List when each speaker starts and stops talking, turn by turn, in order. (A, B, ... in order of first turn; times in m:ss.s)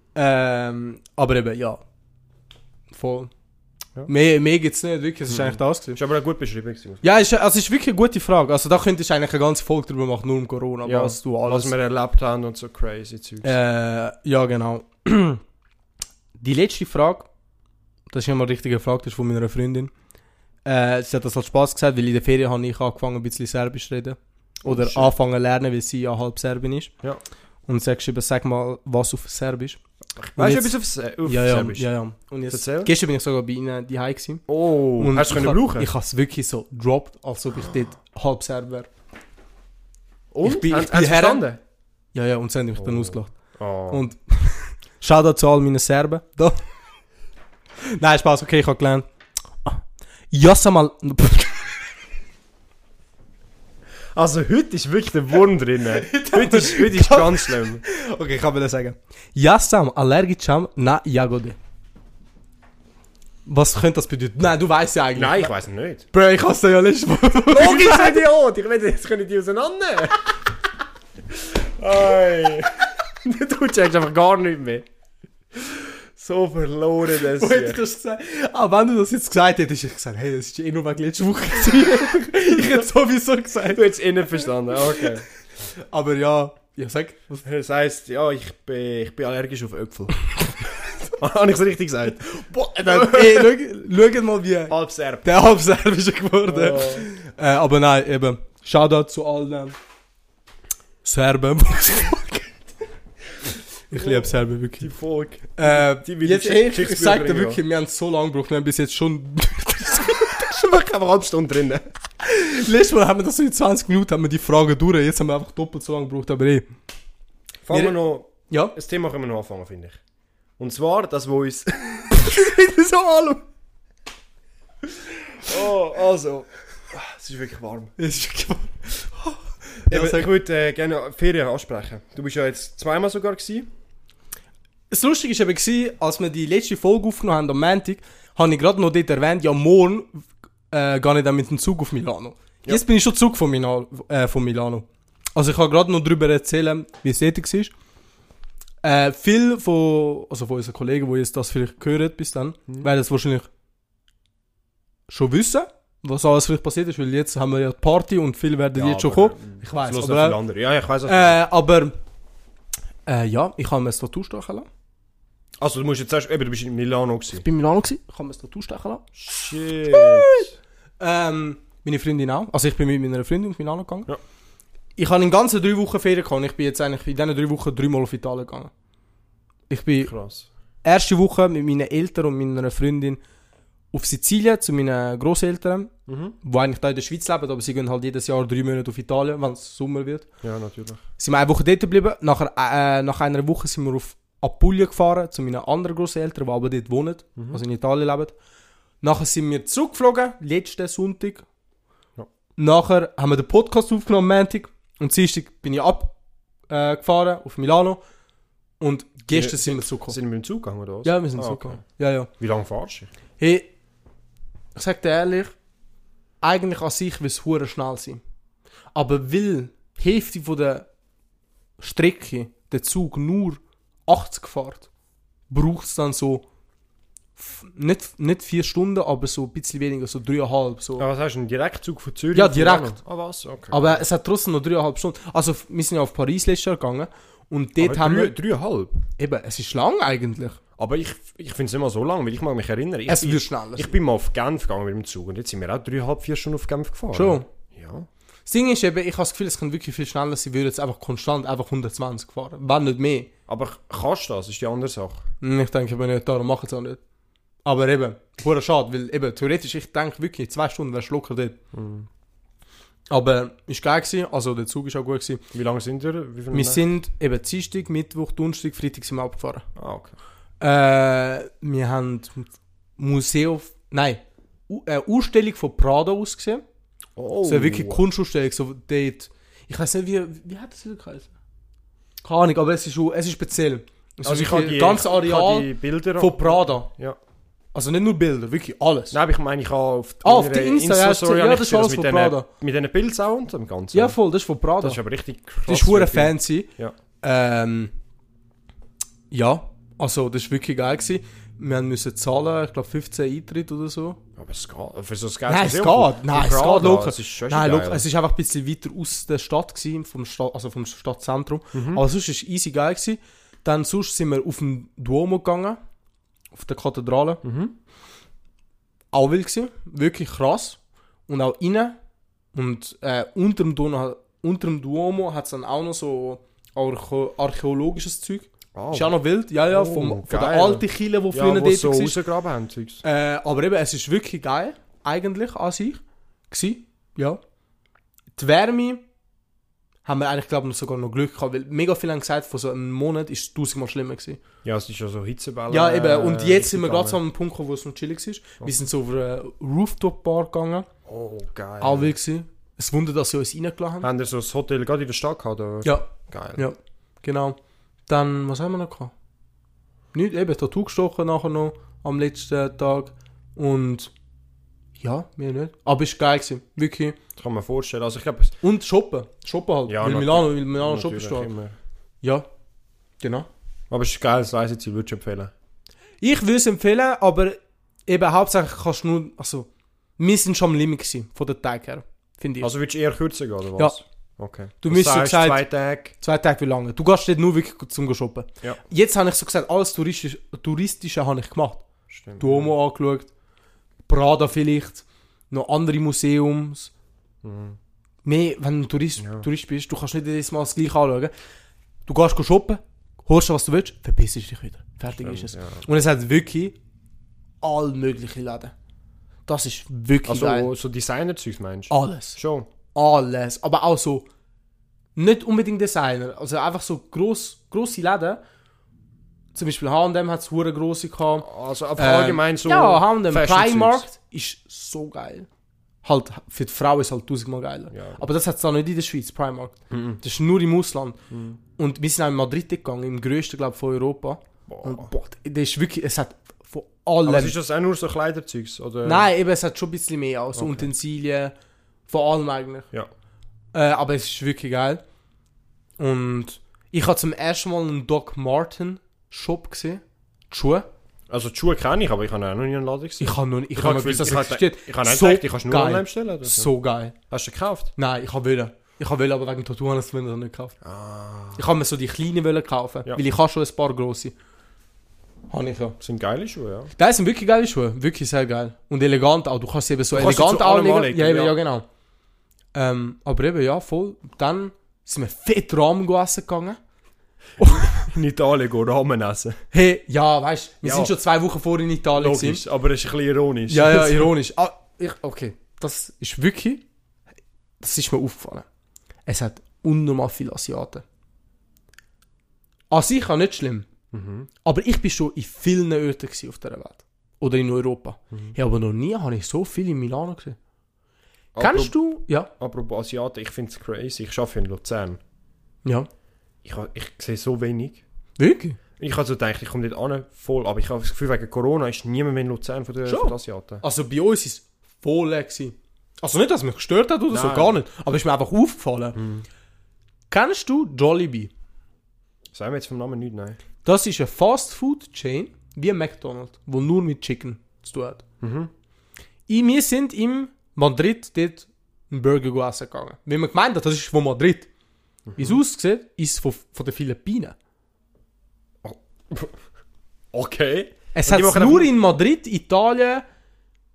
0:00.2-0:01.8 A
0:02.9-0:03.3 A
0:04.1-0:06.0 A
0:05.3-0:07.0 B
0:07.0-0:11.7 A
0:10.8-0:13.5 B
0:13.4-0:15.4 A
0:16.4-0:17.3 A
0:18.1-0:19.9 A
0:20.6-0:26.9 A
0:24.6-0:25.1 B
0:27.7-0:29.8 A
0:30.2-0:31.9 B
0:30.4-0:34.5 A
0:32.5-0:32.9 B
0:34.5-0:35.9 B
0:35.0-0:38.9 A
0:40.3-0:41.6 B
0:40.4-0:41.5 A
0:42.1-0:43.3 A
0:42.8-0:44.0 B
0:43.9-0:46.7 A
0:47.8-0:49.1 A
0:49.6-0:51.8 A
0:54.2-0:57.8 B
0:56.0-1:01.6 A
1:03.4-1:05.5 A
1:05.2-1:06.0 B
1:06.1-1:08.2 A
1:07.5-1:10.3 B
1:11.4-1:14.9 B
1:15.6-1:17.8 B
1:17.2-1:23.8 A
1:23.7-1:25.3 B
1:25.7-1:27.4 A
1:27.4-1:30.2 B
1:31.1-1:33.5 B
1:32.3-1:34.7 A
1:34.7-1:35.3 B
1:35.2-1:39.8 A
1:36.5-1:37.1 B
1:41.0-1:42.6 A
1:43.9-1:44.9 A
1:43.9-1:47.6 B
1:45.6-1:50.6 A
1:50.4-1:51.8 B
1:52.2-1:56.7 A
1:57.6-2:00.0 B
1:58.5-1:58.8 A
2:00.6-2:03.4 B
2:05.4-2:07.9 B
2:08.0-2:10.3 A
2:09.9-2:13.7 B
2:14.9-2:27.7 A
2:28.8-2:33.5 A
2:35.1-2:40.4 A
2:38.8-2:41.4 B
2:41.1-2:42.0 A
2:43.1-2:44.7 A
2:45.6-2:47.4 B
2:47.4-2:49.1 A
2:49.2-2:50.5 B
2:49.9-2:50.5 A
2:51.0-2:54.1 A
2:55.0-2:58.7 A
2:59.7-3:00.1 A
3:00.0-3:00.5 B
3:00.8-3:03.2 A
3:03.9-3:10.3 A
3:06.1-3:06.4 B
3:10.4-3:11.0 B
3:11.2-3:18.4 A
3:17.4-3:17.6 B
3:19.0-3:21.4 A
3:22.6-3:26.2 A
3:26.7-3:28.0 A
3:28.8-3:30.2 A
3:29.3-3:31.8 B
3:31.0-3:32.3 A
3:32.4-3:33.1 B
3:33.4-3:33.7 A
3:34.8-3:35.6 A
3:36.4-3:38.2 A
3:38.9-3:40.9 A
3:41.8-3:44.9 A
3:45.5-3:46.4 A
3:47.4-3:51.1 A
3:51.0-3:54.0 B
3:52.3-3:53.0 A
3:53.7-3:58.4 A
3:57.8-3:59.0 B
3:59.2-4:00.6 A
4:00.8-4:08.1 B
4:03.1-4:03.9 A
4:07.1-4:07.4 A
4:08.5-4:13.3 A
4:13.5-4:15.3 B
4:15.4-4:17.0 A
4:17.6-4:21.6 A
4:21.7-4:22.1 B
4:23.1-4:25.4 A
4:25.5-4:26.8 B
4:26.5-4:29.7 A
4:29.8-4:30.2 B
4:30.6-4:36.6 A
4:37.2-4:38.0 B
4:37.5-4:41.3 A
4:42.2-4:46.9 A
4:44.2-4:47.2 B
4:47.7-4:49.2 A
4:49.1-4:54.2 B
4:50.2-4:52.5 A
4:53.9-4:55.0 A
4:54.8-4:57.0 B
4:55.7-4:56.7 A
4:57.2-4:57.9 A
4:59.3-5:04.2 A
5:04.4-5:08.1 B
5:05.5-5:15.8 A
5:11.7-5:12.0 B
5:16.5-5:17.4 A
5:17.4-5:17.8 B
5:19.1-5:22.0 A
5:22.5-5:32.2 A
5:28.8-5:29.2 B
5:29.7-5:33.0 B
5:33.0-5:37.4 A
5:38.4-5:39.0 A
5:40.0-5:44.4 A
5:44.6-5:47.2 B
5:45.7-5:50.9 A
5:51.1-5:52.1 B
5:51.8-5:54.1 A
5:54.0-5:56.6 B
5:55.8-5:59.1 A
6:00.1-6:04.1 A
6:05.0-6:07.2 A
6:07.4-6:08.6 B
6:08.6-6:11.5 A
6:09.9-6:11.8 B
6:12.2-6:12.5 A
6:13.2-6:13.5 A
6:13.9-6:15.5 B
6:16.2-6:22.7 A
6:22.6-6:26.1 B
6:24.8-6:25.6 A
6:26.2-6:31.8 A
6:32.1-6:32.7 B
6:32.4-6:33.3 A
6:34.1-6:36.9 A
6:37.4-6:37.8 B
6:38.2-6:41.3 A
6:39.2-6:39.5 B
6:42.1-6:46.8 A
6:45.2-6:45.8 B
6:47.6-6:48.7 A
6:49.5-6:50.7 A
6:50.2-6:52.7 B
6:51.9-6:52.4 A
6:52.9-6:54.3 A
6:55.2-6:58.4 A
6:59.5-7:05.5 A
7:01.4-7:04.1 B
7:06.0-7:11.2 A
7:07.9-7:08.2 B
7:09.9-7:10.2 B
7:11.3-7:11.6 B
7:11.8-7:17.6 A
7:14.7-7:15.1 B
7:17.2-7:19.3 B
7:19.0-7:21.5 A
7:20.6-7:20.9 B
7:22.1-7:22.9 A
7:23.7-7:25.0 A
7:26.0-7:30.9 A
7:31.3-7:36.7 B
7:33.2-7:37.2 A
7:37.3-7:37.9 B
7:38.0-7:40.8 A
7:40.8-7:41.6 B
7:41.6-7:44.3 A
7:45.5-7:46.0 A
7:46.0-7:46.9 B
7:47.0-7:51.9 A
7:50.1-7:51.6 B
7:52.7-7:56.8 A
7:57.6-7:58.1 A
7:57.6-7:59.6 B
7:59.7-8:02.6 A
8:00.8-8:01.1 B
8:02.2-8:04.3 B
8:03.7-8:06.8 A
8:07.8-8:08.7 A
8:09.3-8:11.0 A
8:12.9-8:13.9 A
8:14.1-8:14.5 B
8:14.6-8:20.6 A
8:21.6-8:22.0 B
8:21.6-8:22.5 A
8:22.6-8:25.2 B
8:26.6-8:28.0 B
8:28.4-8:28.8 A
8:29.0-8:33.8 B
8:33.1-8:39.2 A
8:37.3-8:37.8 B
8:39.2-8:39.4 B
8:40.3-8:41.5 A
8:42.5-8:43.6 B
8:43.8-8:48.2 A
8:48.4-8:48.7 B
8:49.5-8:54.7 A
8:55.3-8:55.6 B
8:55.4-8:57.6 A
8:58.8-8:59.6 B
9:00.3-9:01.9 B
9:01.1-9:03.2 A